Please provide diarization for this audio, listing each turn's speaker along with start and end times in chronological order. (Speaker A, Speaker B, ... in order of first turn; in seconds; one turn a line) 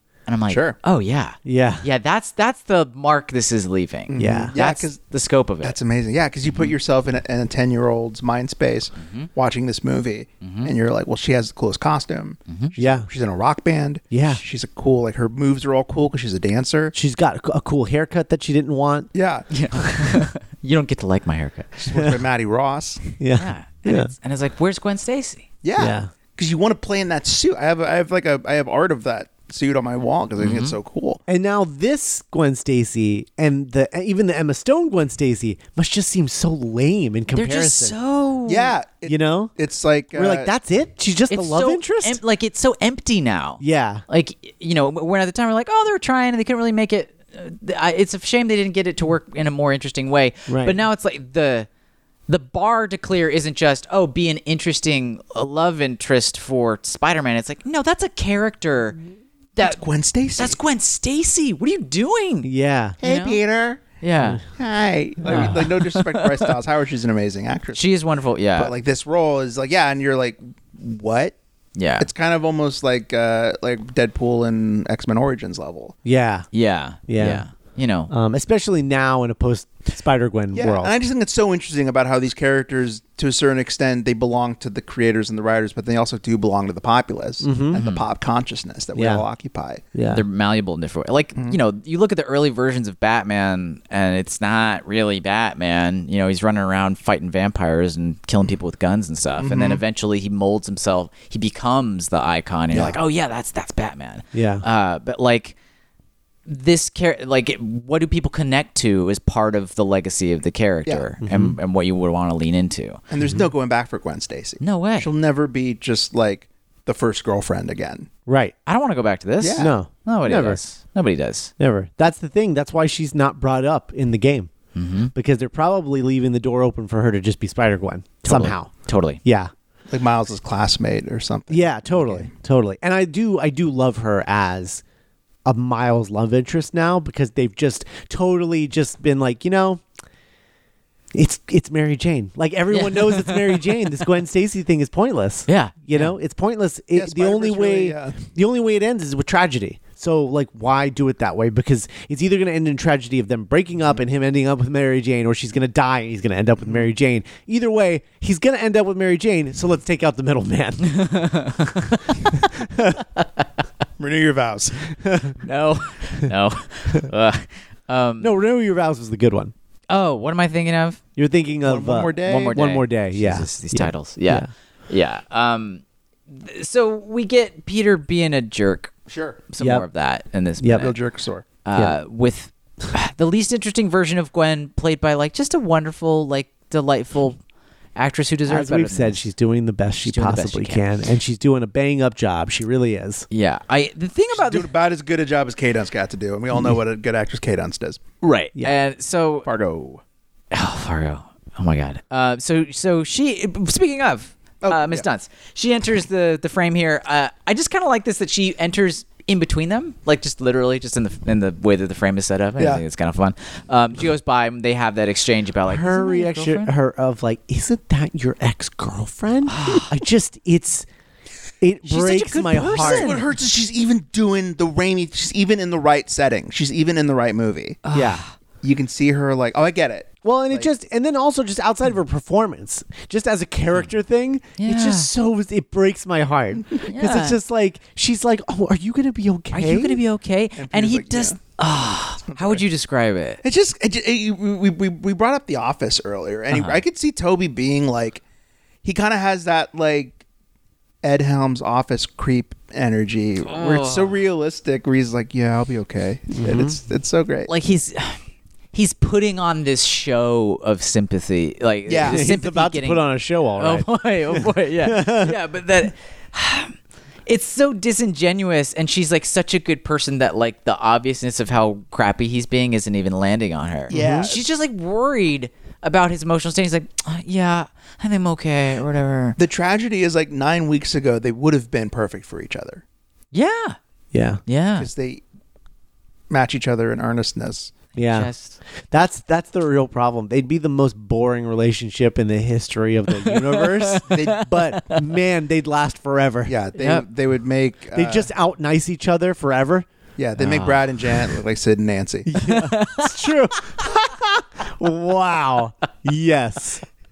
Speaker A: 0.3-5.8
Speaker B: 0.5-0.8
Speaker C: 1.4-1.8
Speaker B: 4.1-5.0
Speaker C: 4.2-4.5
Speaker B: 5.6-16.9
Speaker A: 9.0-9.3
Speaker A: 10.4-10.7
Speaker A: 12.5-12.7
Speaker C: 12.8-13.1
Speaker C: 14.1-14.4
Speaker C: 16.9-19.1
Speaker B: 19.1-19.4
Speaker A: 19.5-21.7
Speaker B: 21.8-23.1
Speaker C: 23.2-24.1
Speaker A: 23.4-25.5
Speaker B: 25.6-31.2
Speaker C: 25.8-26.1
Speaker A: 30.4-30.8
Speaker C: 31.3-38.0
Speaker A: 37.3-38.7
Speaker B: 38.5-40.5
Speaker C: 39.0-39.5
Speaker C: 40.1-42.2
Speaker A: 41.3-51.7
Speaker C: 43.6-44.0
Speaker C: 50.5-50.8
Speaker A: 52.3-59.0
Speaker B: 59.6-60.6
Speaker A: 60.4-62.5
Speaker C: 62.4-63.0
Speaker A: 63.0-63.4
Speaker B: 63.0-63.8
Speaker A: 64.0-64.4
Speaker B: 64.5-67.8
Speaker C: 65.3-65.5
Speaker A: 65.3-66.5
Speaker A: 67.7-68.7
Speaker B: 68.5-71.3
Speaker A: 71.8-72.1
Speaker B: 72.0-75.9
Speaker C: 76.0-76.5
Speaker A: 76.5-78.1
Speaker C: 77.1-77.4
Speaker C: 78.1-80.9
Speaker B: 80.5-89.8
Speaker C: 87.4-87.8
Speaker A: 87.7-88.0
Speaker C: 88.9-89.2
Speaker C: 89.9-90.2
Speaker A: 90.1-105.5
Speaker B: 99.4-99.8
Speaker B: 102.7-103.0
Speaker C: 104.3-104.6
Speaker A: 106.5-113.0
Speaker C: 111.2-111.6
Speaker B: 113.1-118.1
Speaker A: 114.6-115.1
Speaker C: 118.2-118.5
Speaker A: 118.7-121.5
Speaker B: 119.4-119.7
Speaker C: 119.6-120.6
Speaker C: 121.6-124.5
Speaker A: 124.7-125.1
Speaker C: 125.1-128.7
Speaker A: 128.2-129.2
Speaker C: 129.2-129.5
Speaker B: 129.9-132.3
Speaker C: 131.5-134.8
Speaker C: 135.4-139.8
Speaker C: 141.1-161.2
Speaker A: 142.7-143.7
Speaker A: 145.5-146.1
Speaker B: 146.9-148.2
Speaker A: 160.8-162.1
Speaker C: 162.3-163.0
Speaker B: 164.0-164.9
Speaker C: 165.0-165.3
Speaker A: 165.4-168.3
Speaker C: 168.2-169.5
Speaker A: 169.9-171.0
Speaker C: 171.2-174.5
Speaker B: 171.6-172.6
Speaker A: 172.2-178.9
Speaker B: 179.1-179.4
Speaker A: 179.5-180.9
Speaker C: 179.6-179.8
Speaker C: 180.6-180.9
Speaker B: 180.7-181.4
Speaker A: 181.6-187.4
Speaker A: 187.9-189.2
Speaker C: 188.4-193.3
Speaker A: 190.0-190.8
Speaker A: 193.3-194.7
Speaker B: 194.3-198.1
Speaker A: 198.2-199.5
Speaker B: 199.4-200.0
Speaker A: 200.5-216.7
Speaker B: 204.6-205.0
Speaker B: 212.6-212.8
Speaker C: 215.7-220.8
Speaker A: 219.5-219.9
Speaker C: 221.6-223.2
Speaker A: 221.8-223.2
Speaker B: 222.7-227.8
Speaker A: 227.8-228.3
Speaker C: 227.9-228.2
Speaker B: 228.6-230.7
Speaker C: 230.2-240.0
Speaker A: 234.6-235.1
Speaker A: 236.8-237.4
Speaker A: 239.5-243.4
Speaker B: 240.6-241.4
Speaker B: 242.2-242.6
Speaker B: 243.4-248.2
Speaker A: 246.5-246.8
Speaker B: 248.8-250.2
Speaker B: 251.0-257.5
Speaker A: 253.4-254.2
Speaker C: 256.4-256.8
Speaker A: 257.5-258.2
Speaker A: 258.7-263.0
Speaker B: 261.9-262.3
Speaker C: 262.1-265.4
Speaker A: 263.6-266.7
Speaker A: 267.2-279.4
Speaker B: 273.9-274.4
Speaker C: 273.9-274.2
Speaker B: 279.4-282.8
Speaker A: 283.3-283.8
Speaker C: 284.1-284.4
Speaker A: 284.4-284.9
Speaker B: 284.8-285.2
Speaker B: 286.3-287.7
Speaker A: 287.9-288.6
Speaker C: 287.9-288.3
Speaker C: 288.9-296.5
Speaker A: 293.1-295.0
Speaker B: 294.1-294.5
Speaker B: 296.4-298.3
Speaker A: 296.8-297.0
Speaker C: 297.9-299.9
Speaker B: 300.2-302.3
Speaker A: 300.4-300.8
Speaker C: 302.2-306.8
Speaker A: 302.4-303.2